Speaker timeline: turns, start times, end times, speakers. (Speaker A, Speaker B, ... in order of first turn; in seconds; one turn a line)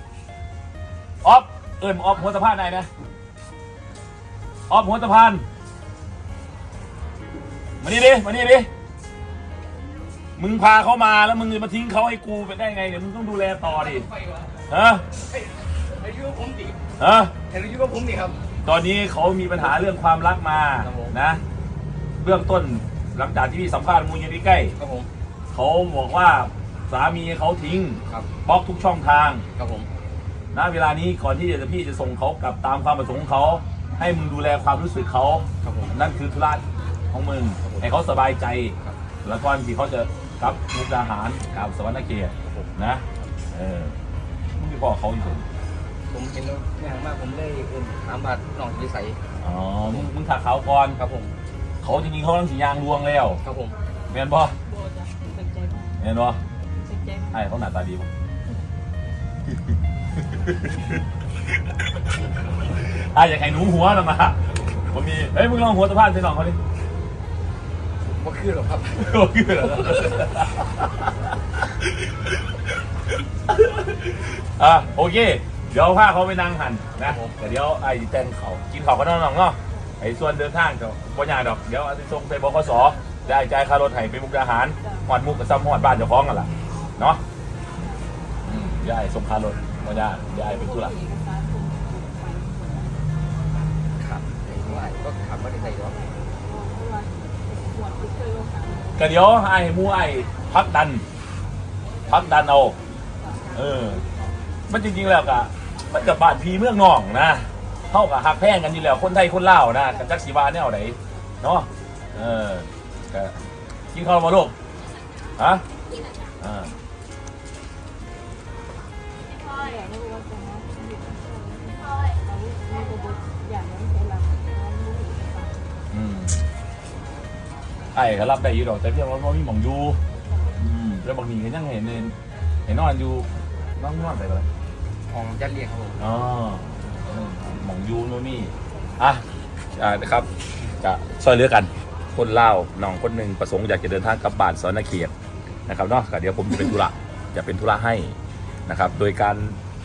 Speaker A: 1.2-2.9
Speaker A: 4.7-5.5
Speaker A: 7.8-8.7
Speaker A: 10.4-14.1
Speaker B: 13.9-14.5
Speaker A: 14.7-15.1
Speaker B: 15.3-16.8
Speaker A: 17.0-17.3
Speaker B: 17.5-18.4
Speaker A: 18.6-21.4
Speaker B: 20.8-21.1
Speaker A: 22.2-24.8
Speaker B: 24.8-25.1
Speaker A: 25.5-29.5
Speaker B: 29.6-29.9
Speaker A: 30.5-44.0
Speaker B: 35.6-36.0
Speaker B: 42.4-42.7
Speaker A: 44.6-45.5
Speaker B: 46.1-49.2
Speaker A: 49.4-51.0
Speaker B: 51.0-51.3
Speaker A: 51.8-53.4
Speaker B: 53.4-53.8
Speaker A: 54.1-54.6
Speaker C: 54.6-56.0
Speaker A: 56.0-56.4
Speaker C: 56.8-57.4
Speaker A: 57.3-58.1
Speaker A: 60.2-61.0
Speaker A: 62.6-66.6
Speaker B: 68.0-70.1
Speaker A: 69.0-72.5
Speaker A: 73.5-87.2
Speaker B: 77.0-77.4
Speaker C: 84.8-85.1
Speaker C: 87.8-88.3
Speaker A: 88.4-91.0
Speaker C: 90.3-93.0
Speaker B: 94.0-96.0
Speaker C: 94.5-99.1
Speaker A: 99.0-101.0
Speaker A: 102.1-102.8
Speaker C: 103.1-104.3
Speaker A: 103.5-104.0
Speaker A: 104.7-114.5
Speaker C: 109.9-110.2
Speaker A: 115.4-115.7
Speaker A: 116.4-116.7
Speaker C: 119.4-125.7
Speaker A: 125.9-126.4
Speaker A: 127.9-130.0
Speaker A: 130.5-132.2
Speaker A: 132.7-134.5
Speaker B: 135.1-136.0
Speaker A: 136.0-139.2
Speaker A: 139.8-145.1
Speaker A: 145.7-149.6